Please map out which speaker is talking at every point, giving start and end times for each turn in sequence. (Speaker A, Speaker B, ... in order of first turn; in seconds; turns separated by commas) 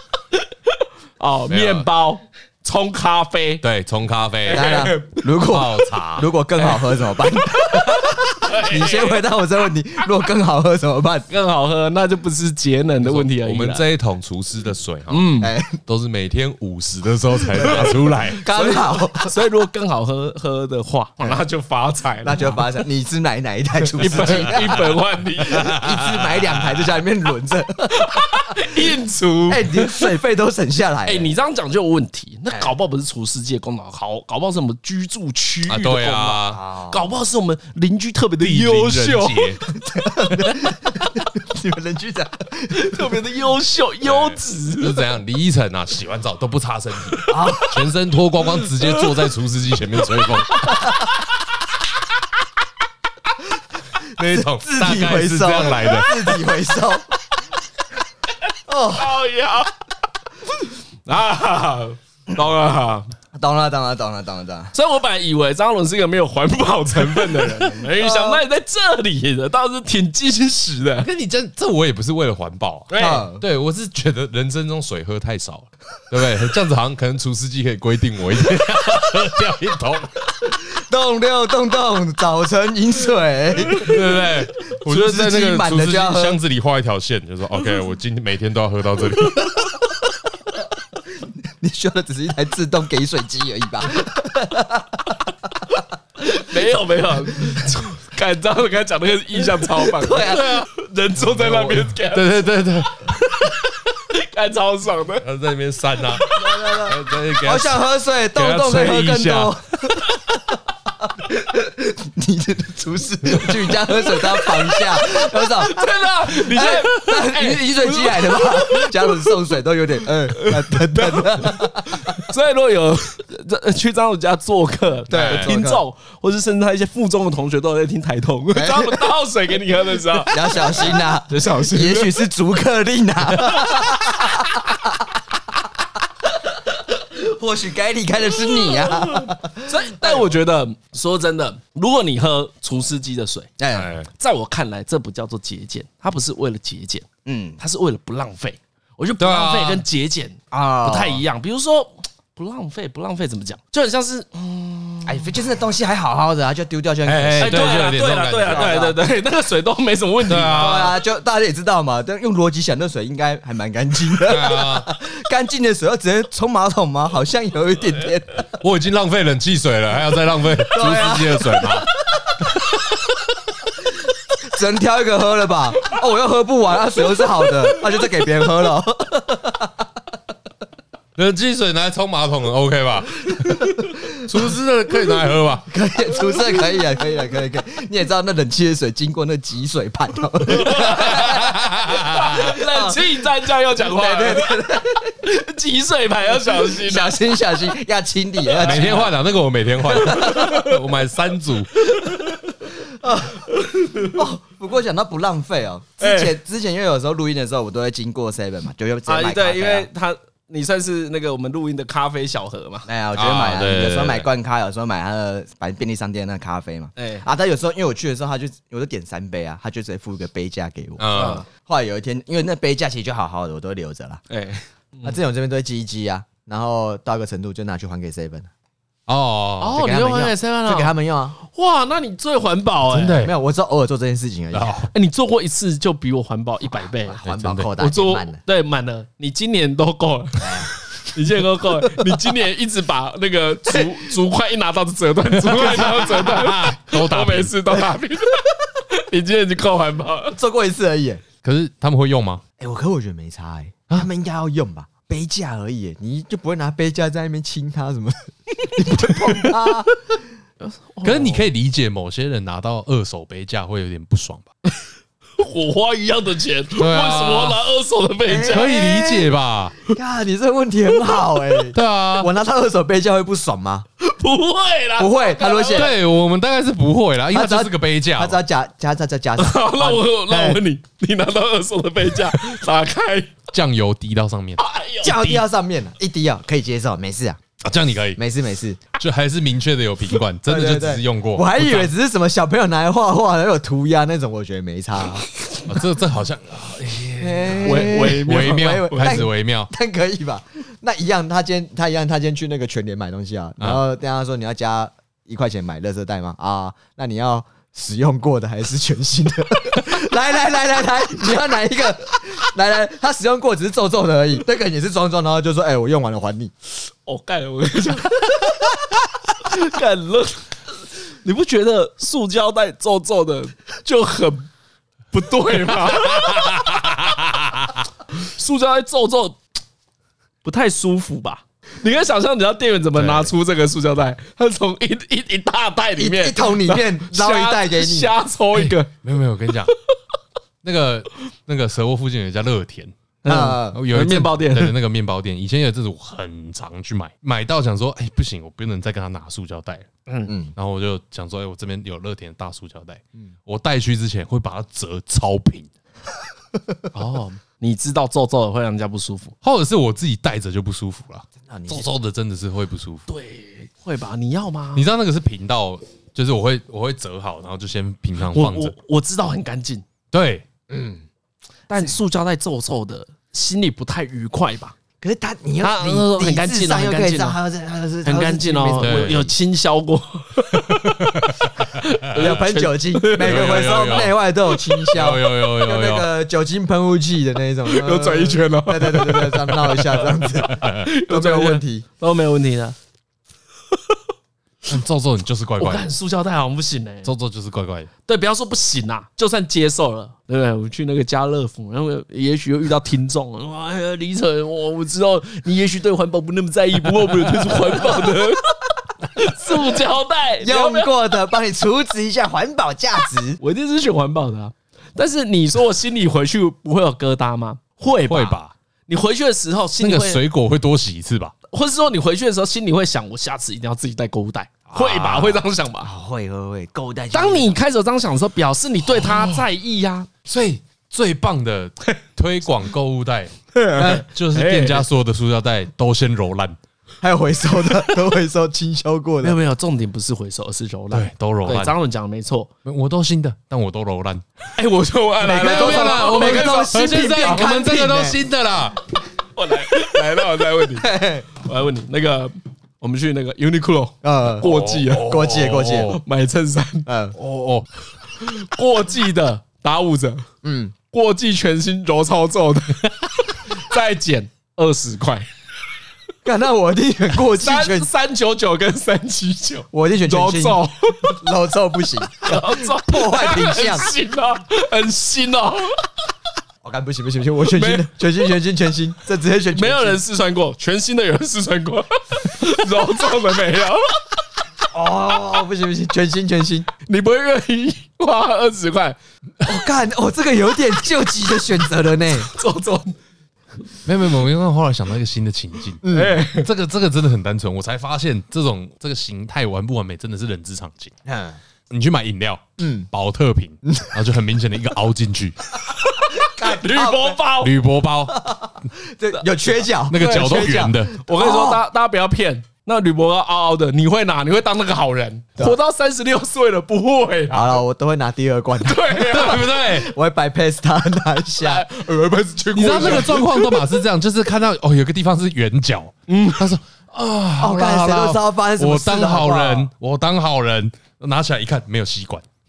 Speaker A: 0.3-3.6, Speaker B: 1.5-1.9, Speaker B: 3.6-6.3, Speaker A: 4.5-5.2, Speaker C: 4.5-11.3, Speaker A: 7.7-9.2, Speaker A: 11.3-13.9, Speaker B: 13.0-15.3, Speaker A: 15.1-15.5, Speaker C: 15.4-15.8, Speaker B: 15.9-18.4, Speaker C: 17.5-19.3, Speaker A: 17.6-17.9, Speaker A: 18.4-22.6, Speaker C: 22.2-24.9, Speaker A: 24.0-25.8, Speaker B: 24.2-24.7, Speaker B: 25.4-26.8, Speaker C: 25.5-28.2, Speaker A: 27.9-30.1, Speaker C: 29.5-31.3, Speaker A: 31.1-39.6, Speaker B: 35.7-36.6, Speaker C: 36.5-37.1, Speaker B: 38.4-39.6, Speaker C: 39.8-43.2, Speaker A: 42.7-45.0, Speaker B: 44.0-50.7, Speaker C: 47.3-47.9, Speaker A: 48.8-49.1, Speaker C: 50.7-51.1, Speaker B: 54.1-56.4, Speaker C: 54.2-57.1, Speaker C: 58.7-59.2, Speaker A: 58.9-59.7, Speaker A: 61.1-63.1, Speaker C: 63.3-64.7, Speaker A: 64.7-71.1, Speaker C: 68.0-68.4, Speaker B: 71.0-80.2, Speaker A: 72.9-73.3, Speaker C: 73.0-73.4, Speaker C: 80.4-84.3, Speaker B: 83.7-89.7, Speaker C: 84.9-86.4, Speaker C: 91.2-95.2, Speaker A: 96.2-105.3, Speaker C: 99.7-100.5, Speaker B: 100.1-103.1, Speaker B: 105.2-110.0, Speaker A: 106.1-106.6, Speaker C: 106.3-122.2, Speaker A: 114.0-119.4, Speaker A: 120.3-132.2, Speaker C: 125.1-125.8, Speaker B: 125.1-125.5, Speaker C: 128.5-129.1, Speaker C: 130.1-135.1, Speaker C: 136.8-140.3, Speaker A: 139.6-143.5, Speaker C: 143.6-143.9, Speaker B: 143.7-144.1, Speaker A: 144.2-147.1, Speaker C: 147.2-147.6, Speaker A: 147.6-155.3, Speaker B: 149.2-149.8, Speaker C: 150.5-151.2, Speaker C: 155.1-157.9, Speaker B: 157.1-158.9, Speaker A: 157.4-160.8, Speaker C: 158.4-159.0, Speaker B: 160.3-161.0, Speaker C: 160.5-168.5, Speaker B: 164.3-164.9, Speaker B: 168.6-171.9, Speaker C: 170.7-172.3, Speaker C: 174.4-179.9, Speaker B: 181.2-185.7, Speaker C: 185.7-191.8, Speaker A: 190.5-197.2, Speaker B: 190.9-192.4, Speaker C: 192.3-195.2, Speaker C: 196.5-199.1, Speaker A: 198.5-199.1, Speaker B: 198.6-201.9, Speaker C: 199.8-200.7, Speaker A: 200.1-200.5, Speaker A: 201.9-202.3, Speaker C: 202.8-203.5, Speaker A: 203.5-204.2, Speaker C: 204.0-209.9, Speaker A: 206.0-206.4, Speaker A: 209.1-212.9, Speaker C: 212.9-224.2, Speaker B: 213.1-214.3, Speaker A: 217.0-217.2, Speaker B: 221.0-221.4, Speaker A: 221.1-221.5, Speaker A: 224.3-225.2, Speaker C: 225.0-228.5, Speaker B: 229.1-229.8, Speaker A: 229.6-233.3, Speaker C: 229.7-231.4, Speaker B: 232.9-233.3, Speaker C: 233.2-234.9, Speaker B: 234.5-234.9, Speaker A: 234.9-237.2, Speaker C: 237.1-238.4, Speaker B: 237.2-237.7, Speaker A: 237.8-250.4, Speaker C: 240.4-240.7, Speaker C: 241.9-242.2, Speaker C: 243.7-244.0, Speaker B: 245.4-247.6, Speaker C: 250.3-251.2, Speaker B: 251.4-252.4, Speaker C: 252.6-259.9, Speaker A: 260.6-261.5, Speaker B: 261.0-264.5, Speaker A: 265.4-268.8, Speaker B: 266.8-267.6, Speaker C: 268.3-269.3, Speaker B: 268.4-269.8, Speaker C: 269.9-273.9, Speaker B: 271.7-272.3, Speaker A: 274.0-275.9, Speaker C: 275.0-275.9, Speaker B: 275.7-278.4, Speaker C: 277.3-280.6, Speaker A: 279.4-283.4, Speaker B: 283.5-285.4, Speaker A: 284.6-285.2, Speaker C: 285.0-287.4, Speaker B: 287.6-288.2, Speaker C: 288.2-288.8, Speaker B: 289.0-291.9, Speaker C: 290.5-295.3, Speaker B: 295.7-299.7, Speaker C: 297.2-316.5, Speaker A: 297.6-299.2, Speaker A: 317.1-318.5, Speaker A: 319.4-320.4, Speaker A: 321.2-324.5, Speaker A: 325.1-326.8, Speaker B: 325.9-327.7, Speaker A: 328.1-329.4, Speaker A: 330.4-338.9, Speaker B: 332.9-333.3, Speaker C: 336.0-338.1, Speaker B: 338.5-339.7, Speaker B: 340.6-342.9, Speaker A: 343.2-344.7, Speaker C: 343.2-343.8, Speaker B: 343.5-349.9, Speaker A: 350.1-350.3, Speaker C: 350.3-350.5, Speaker B: 350.6-355.7, Speaker A: 356.9-359.4, Speaker B: 359.4-363.1, Speaker C: 361.4-361.9, Speaker A: 363.1-364.9, Speaker B: 364.8-368.7, Speaker A: 368.3-369.9, Speaker B: 370.1-370.4, Speaker C: 370.7-371.0, Speaker A: 371.7-374.8, Speaker C: 375.0-379.3, Speaker A: 375.6-377.4, Speaker A: 378.0-381.2, Speaker B: 378.8-379.3, Speaker B: 380.7-381.7, Speaker A: 381.8-383.6, Speaker C: 382.1-391.9, Speaker B: 383.1-384.2, Speaker B: 384.9-386.1, Speaker A: 387.6-392.8, Speaker B: 390.4-390.9, Speaker B: 394.7-395.9, Speaker A: 395.6-397.1, Speaker B: 397.0-397.9, Speaker A: 398.1-410.9, Speaker C: 410.4-413.4, Speaker A: 413.4-420.2, Speaker B: 418.1-418.5, Speaker B: 419.8-421.3, Speaker A: 421.5-425.9, Speaker B: 424.7-425.4, Speaker C: 425.8-427.6, Speaker A: 427.1-430.1, Speaker B: 428.9-429.4, Speaker B: 430.3-436.6, Speaker A: 433.5-434.9, Speaker C: 433.8-434.0, Speaker C: 437.0-439.4, Speaker A: 439.2-442.5, Speaker B: 440.9-441.8, Speaker B: 442.7-444.2, Speaker A: 444.6-446.8, Speaker C: 445.2-448.2, Speaker B: 445.2-448.8, Speaker A: 449.4-455.2, Speaker C: 450.7-451.3, Speaker C: 454.0-456.0, Speaker B: 454.4-456.0, Speaker A: 455.9-456.9, Speaker C: 456.9-457.2, Speaker B: 457.2-457.7, Speaker A: 458.2-460.2, Speaker C: 460.4-460.7, Speaker A: 460.9-465.3, Speaker C: 466.2-467.9, Speaker A: 467.3-471.2, Speaker C: 469.7-473.9, Speaker A: 472.2-475.8, Speaker C: 476.6-480.0, Speaker A: 477.5-477.9, Speaker A: 479.5-483.8, Speaker C: 484.7-486.7, Speaker A: 486.9-489.0, Speaker C: 489.4-492.3, Speaker A: 492.2-493.0, Speaker B: 493.9-500.9, Speaker C: 495.8-496.2, Speaker A: 495.9-496.5, Speaker C: 501.1-501.4, Speaker B: 501.7-505.5, Speaker C: 502.6-502.9, Speaker C: 503.6-503.9, Speaker A: 505.8-507.6, Speaker C: 506.2-507.2, Speaker B: 507.4-508.3, Speaker C: 508.1-511.6, Speaker B: 509.9-511.0, Speaker A: 511.0-517.6, Speaker C: 517.3-521.7, Speaker A: 518.6-519.5, Speaker B: 519.0-519.9, Speaker A: 521.4-523.7, Speaker B: 522.5-532.3, Speaker C: 522.6-523.2, Speaker A: 526.1-526.5, Speaker C: 527.4-529.7